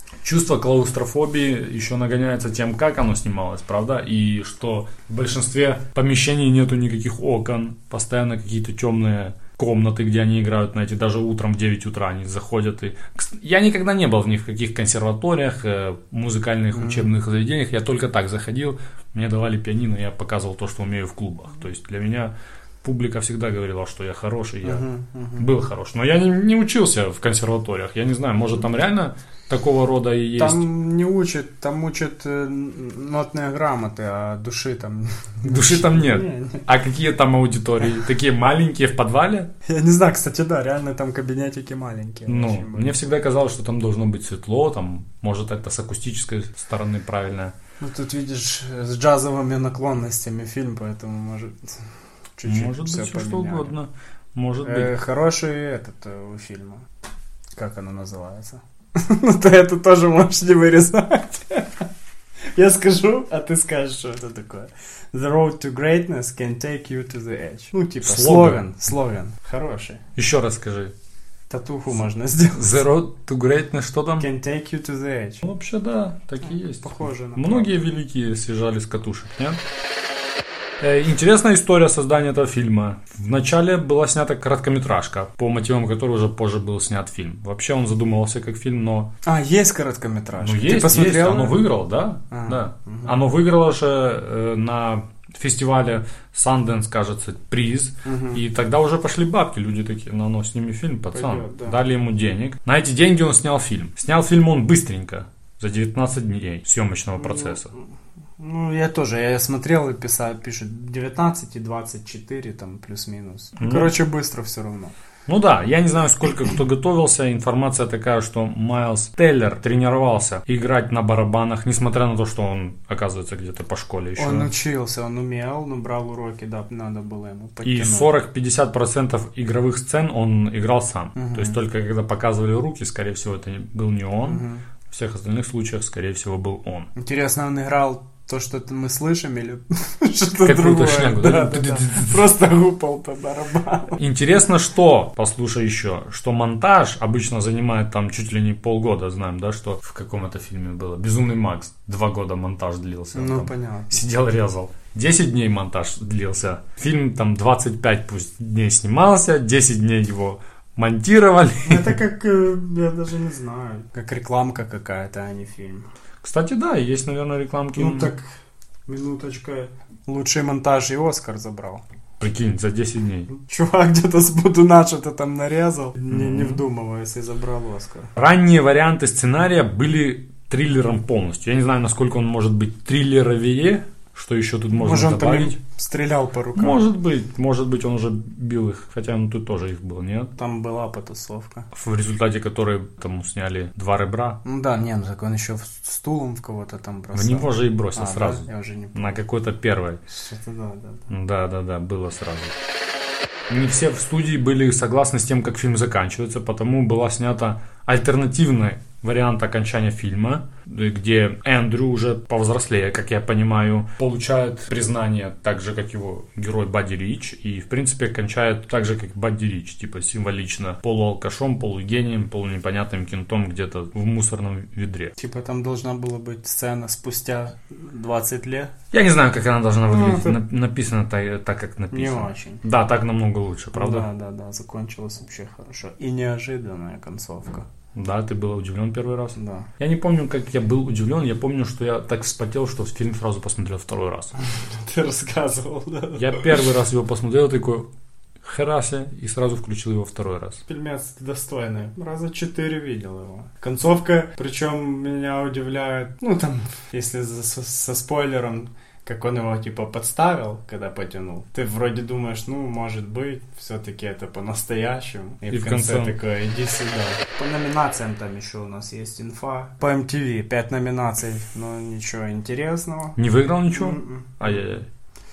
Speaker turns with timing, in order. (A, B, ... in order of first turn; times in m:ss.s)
0:00.2-0:24.9 A
0:16.7-0:17.1 B
0:24.6-0:25.5 B
0:25.4-0:30.7 A
0:30.4-0:36.7 B
0:35.4-0:39.5 A
0:39.6-0:43.0 B
0:42.3-0:47.6 A
0:47.8-0:51.7 B
0:52.4-0:53.7 B
0:52.4-0:55.0 A
0:54.6-0:56.9 B
0:57.6-1:01.9 B
1:02.6-1:10.0 B
1:08.0-1:08.7 A
1:10.2-1:11.0 A
1:11.5-1:12.8 B
1:12.5-1:14.3 A
1:14.2-1:15.5 B
1:15.4-1:19.6 A
1:16.8-1:17.8 B
1:20.8-1:29.1 A
1:29.2-1:31.6 B
1:30.4-1:47.7 A
1:32.3-1:33.2 B
1:38.0-1:38.4 B
1:41.1-1:41.8 B
1:47.2-1:47.8 B
1:48.4-1:54.9 B
1:53.6-1:54.0 A
1:55.3-2:04.5 A
2:04.2-2:08.1 B
2:07.6-2:16.9 A
2:11.2-2:11.6 B
2:14.2-2:14.6 B
2:17.0-2:24.0 B
2:20.4-2:22.4 A
2:24.0-2:42.0 A
2:33.1-2:34.0 B
2:41.6-2:45.9 B
2:46.2-2:48.1 A
2:47.8-2:48.3 B
2:48.9-2:51.8 B
2:52.2-2:53.3 A
2:53.3-2:58.1 B
2:56.1-2:56.6 A
2:58.2-3:05.6 A
3:04.8-3:06.8 B
3:06.6-3:10.3 A
3:10.4-3:11.7 B
3:11.7-3:14.4 A
3:14.4-3:19.2 B
3:17.1-3:20.0 A
3:20.1-3:21.1 B
3:21.1-3:22.6 A
3:23.5-3:45.2 A
3:45.2-3:48.7 B
3:48.9-3:54.1 A
3:49.9-3:50.4 B
3:51.9-3:52.6 B
3:53.8-3:57.7 B
3:58.0-4:04.4 A
3:59.4-3:59.7 B
4:04.8-4:06.6 B
4:06.2-4:07.9 A
4:08.4-4:10.6 A
4:10.7-4:33.2 B
4:25.5-4:26.2 A
4:33.2-4:34.9 A
4:33.7-4:34.6 B